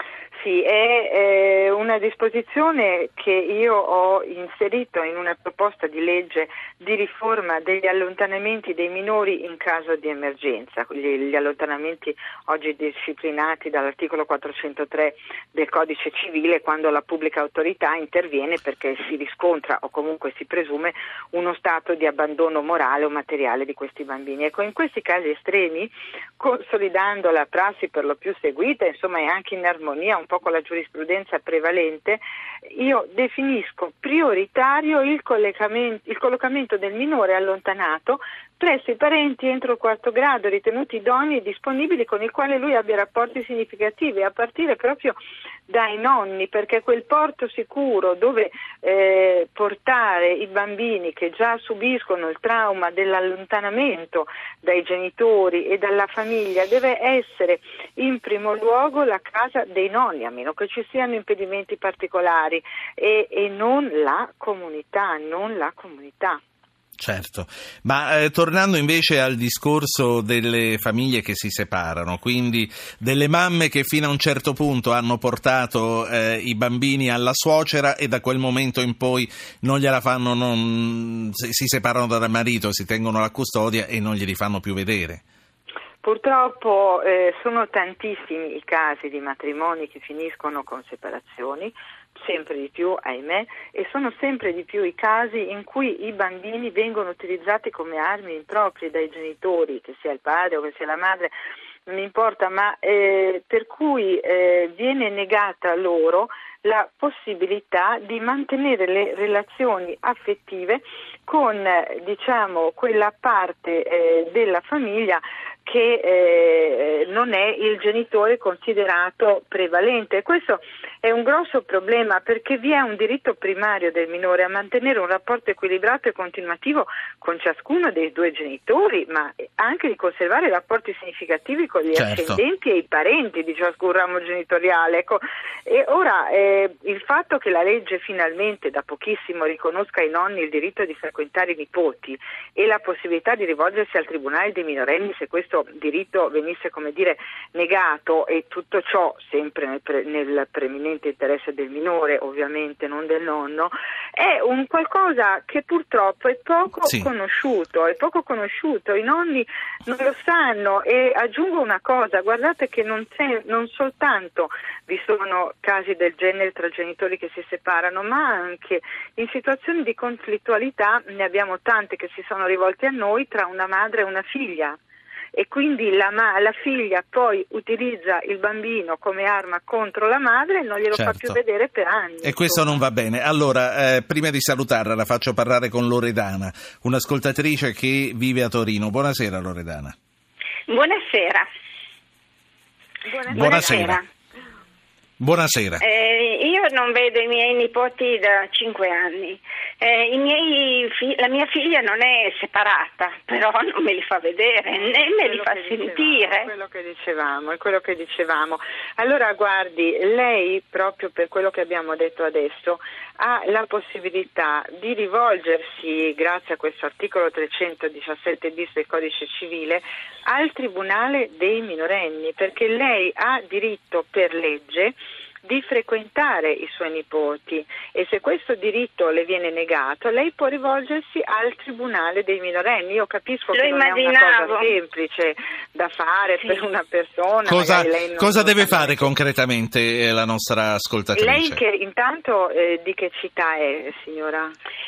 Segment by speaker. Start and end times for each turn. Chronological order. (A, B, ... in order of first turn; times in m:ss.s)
0:00.3-0:45.2 A
0:45.7-1:06.4 A
1:07.0-1:25.2 B
1:26.0-1:41.3 A
1:41.8-2:54.8 A
2:11.9-2:12.4 B
2:55.3-3:02.8 A
3:00.9-3:01.4 B
3:02.2-3:09.9 B
3:10.7-3:11.5 C
3:13.0-3:14.0 A
3:13.3-3:14.0 B
3:13.3-3:14.0 C
3:15.2-3:15.8 B
3:15.8-3:26.5 C
3:24.7-3:59.1 A
3:53.5-3:54.7 C
3:57.4-4:01.6 B
4:01.1-4:04.5 A